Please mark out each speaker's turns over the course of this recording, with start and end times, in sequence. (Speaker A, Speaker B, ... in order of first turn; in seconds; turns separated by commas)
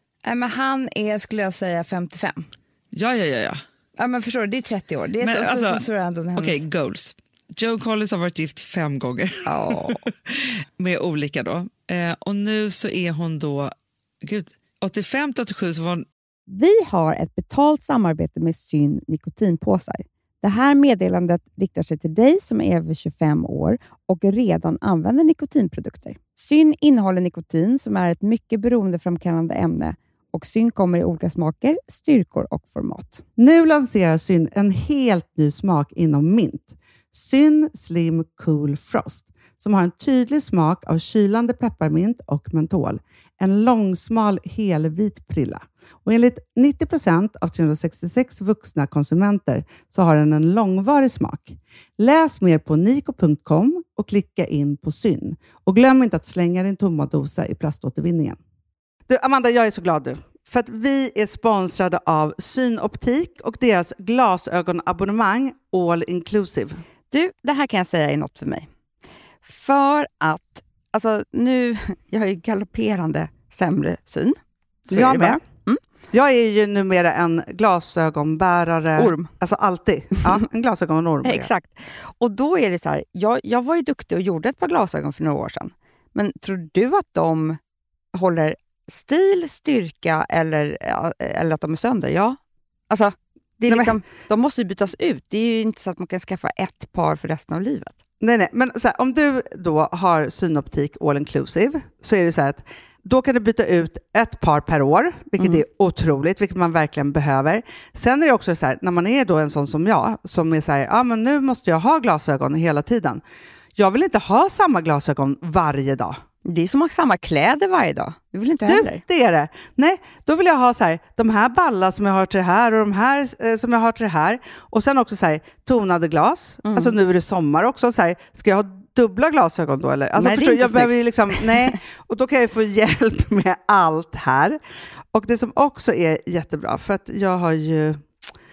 Speaker A: 0.2-2.5, Speaker B: 2.9-3.6, Speaker A: 4.0-6.6, Speaker B: 5.2-5.8, Speaker B: 6.4-16.1, Speaker A: 9.4-10.0, Speaker C: 16.5-33.2, Speaker D: 33.4-58.4, Speaker D: 59.1-66.8, Speaker C: 67.1-68.7, Speaker C: 69.4-74.4, Speaker D: 74.9-75.4, Speaker C: 74.9-75.8, Speaker D: 76.1-81.5, Speaker C: 81.2-87.6, Speaker C: 88.1-92.4, Speaker C: 92.9-98.0, Speaker D: 93.7-94.0, Speaker D: 98.2-113.2, Speaker D: 113.8-116.2, Speaker C: 116.4-119.0, Speaker D: 118.6-134.6, Speaker C: 126.6-127.0, Speaker C: 130.2-131.8, Speaker D: 135.1-138.2